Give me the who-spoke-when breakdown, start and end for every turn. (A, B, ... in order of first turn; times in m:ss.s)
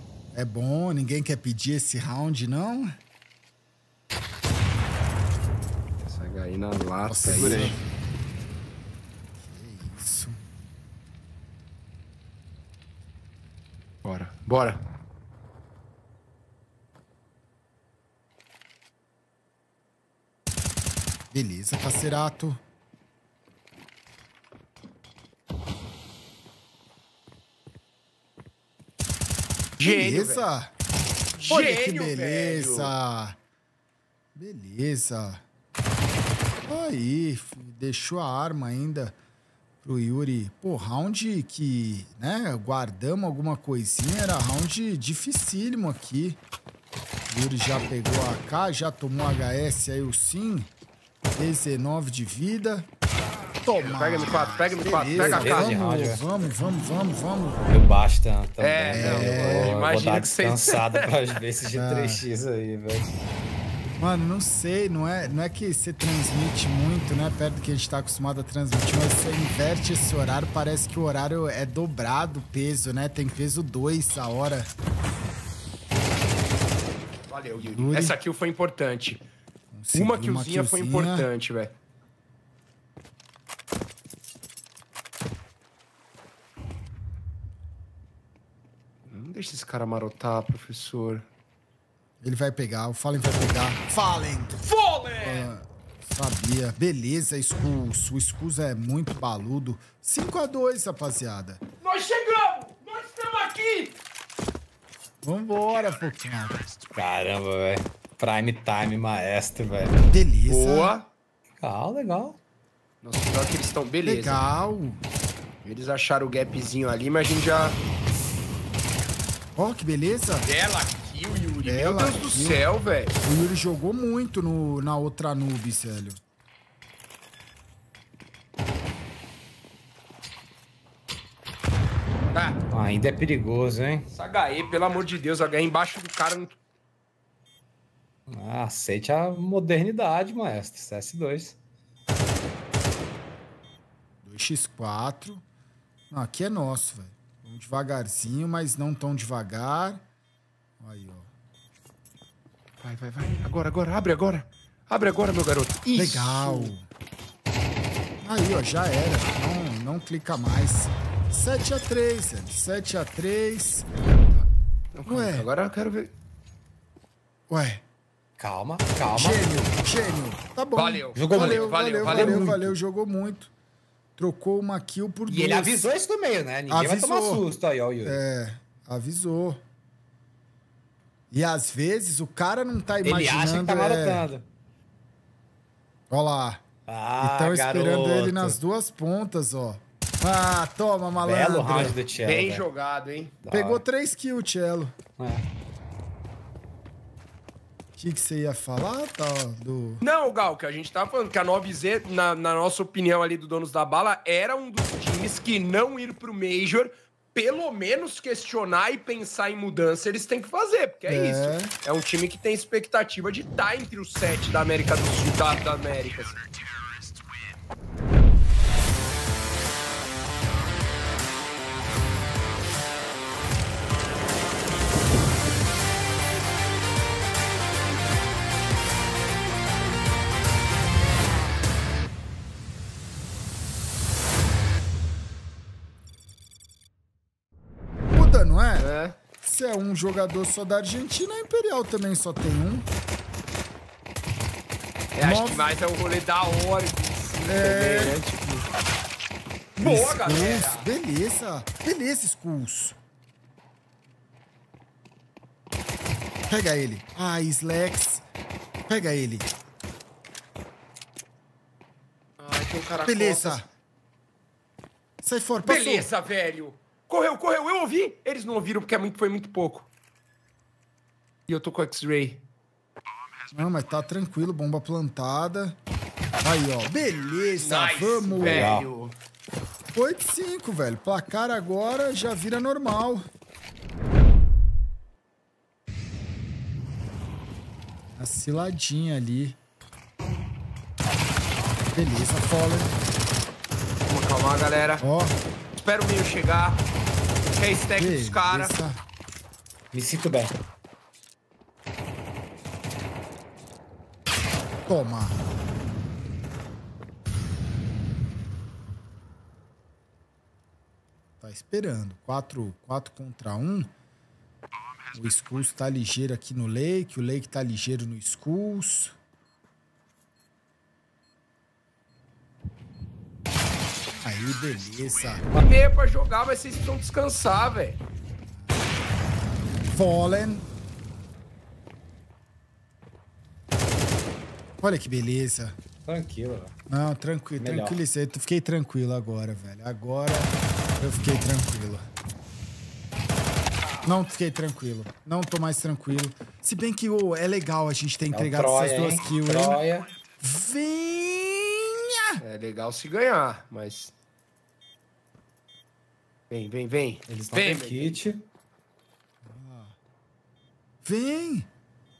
0:00.3-0:02.9 A
0:06.0-0:07.8 B
0:07.1-0:07.8 A
0:09.4-0:10.4 A
0:14.0-0:14.8 B
0:21.3-0:22.6 A
0:29.8-0:30.5 B
0:29.8-0:30.7 A
0:31.4-0:32.9 B
0:31.5-0:33.4 A
0:34.3-0:35.4 A
0:36.7-0:39.2 A
0:39.8-0:46.4 A
0:47.3-0:50.7 A
0:51.3-0:52.9 A
0:53.6-0:57.7 A
0:53.8-0:55.8 B
0:55.1-0:56.2 C
0:57.7-1:03.1 C
0:58.6-1:01.1 B
0:58.9-0:59.8 A
1:01.7-1:02.2 A
1:04.0-1:14.7 A
1:17.3-1:19.2 B
1:17.6-1:18.2 A
1:19.7-1:21.3 A
1:19.9-1:21.7 B
1:29.1-1:31.3 B
1:32.2-1:34.6 A
1:34.6-1:35.5 B
1:35.2-1:41.6 A
1:41.8-1:44.0 B
1:45.2-1:46.6 A
1:46.9-1:50.0 C
1:50.1-1:50.9 A
1:50.5-1:51.1 B
1:51.6-1:52.4 C
1:53.0-1:54.4 B
1:54.0-1:55.0 A
1:55.6-1:57.8 B
1:59.6-2:00.5 A
2:00.4-2:03.2 B
2:01.6-2:02.6 A
2:03.2-2:06.2 A
2:12.3-2:12.6 B
2:12.7-2:14.1 C
2:14.1-2:16.6 B
2:18.3-2:21.6 C
2:24.2-2:25.4 A
2:26.1-2:30.0 A
2:30.8-2:31.3 A
2:32.8-2:36.7 B
2:35.9-2:36.9 A
2:38.2-2:43.9 A
2:44.3-2:46.1 B
2:45.0-2:45.5 A
2:47.5-2:47.8 A
2:48.4-2:49.5 C
2:49.1-2:53.5 A
2:50.8-2:52.5 B
2:51.1-2:52.8 C
2:54.2-2:55.9 A
2:55.3-2:58.2 C
2:56.7-2:57.4 A
2:58.0-2:59.6 A
3:01.3-3:04.2 A
3:03.0-3:04.4 C
3:06.1-3:06.6 A
3:06.9-3:08.6 C
3:07.2-3:12.0 A
3:11.2-3:12.6 C
3:12.1-3:13.4 B
3:13.4-3:13.8 C
3:13.5-3:14.9 A
3:15.2-3:15.4 C
3:18.0-3:20.0 A
3:20.0-3:36.4 B
3:31.0-3:31.7 A
3:58.1-3:58.9 A
3:58.8-3:59.1 B
3:59.4-4:02.8 A
4:05.1-4:08.7 B
4:05.2-4:05.8 A
4:07.4-4:08.2 A
4:09.8-4:10.9 B
4:09.8-4:13.0 A
4:16.5-4:18.2 A
4:18.9-4:19.5 A
4:22.4-4:23.6 B
4:23.0-4:23.6 A
4:25.2-4:26.1 A
4:25.6-4:29.9 B
4:31.5-4:32.4 B
4:33.5-4:35.8 A
4:36.4-4:38.8 A
4:37.6-4:39.2 B
4:38.4-4:38.9 C
4:39.9-4:43.2 A
4:48.2-4:49.6 A
4:51.9-4:53.0 A
4:54.0-4:55.0 B
4:55.0-4:55.3 A
4:55.8-4:56.8 B
4:57.6-4:58.8 B
4:57.9-4:59.0 A
4:59.9-5:00.6 C
5:04.9-5:05.4 A
5:11.4-5:13.9 A
5:15.1-5:19.2 A
5:24.1-5:25.5 A
5:25.5-5:28.0 B
5:29.9-5:30.7 A
5:34.8-5:35.8 A
5:36.0-5:36.7 C
5:36.9-5:42.0 A
5:37.6-5:38.0 C
5:44.0-5:49.8 A
5:48.3-5:50.1 C
5:50.4-5:52.4 A
5:52.4-5:54.1 B
5:56.5-5:58.3 B
5:57.3-5:58.4 C
5:59.4-6:00.0 A
6:01.0-6:01.7 A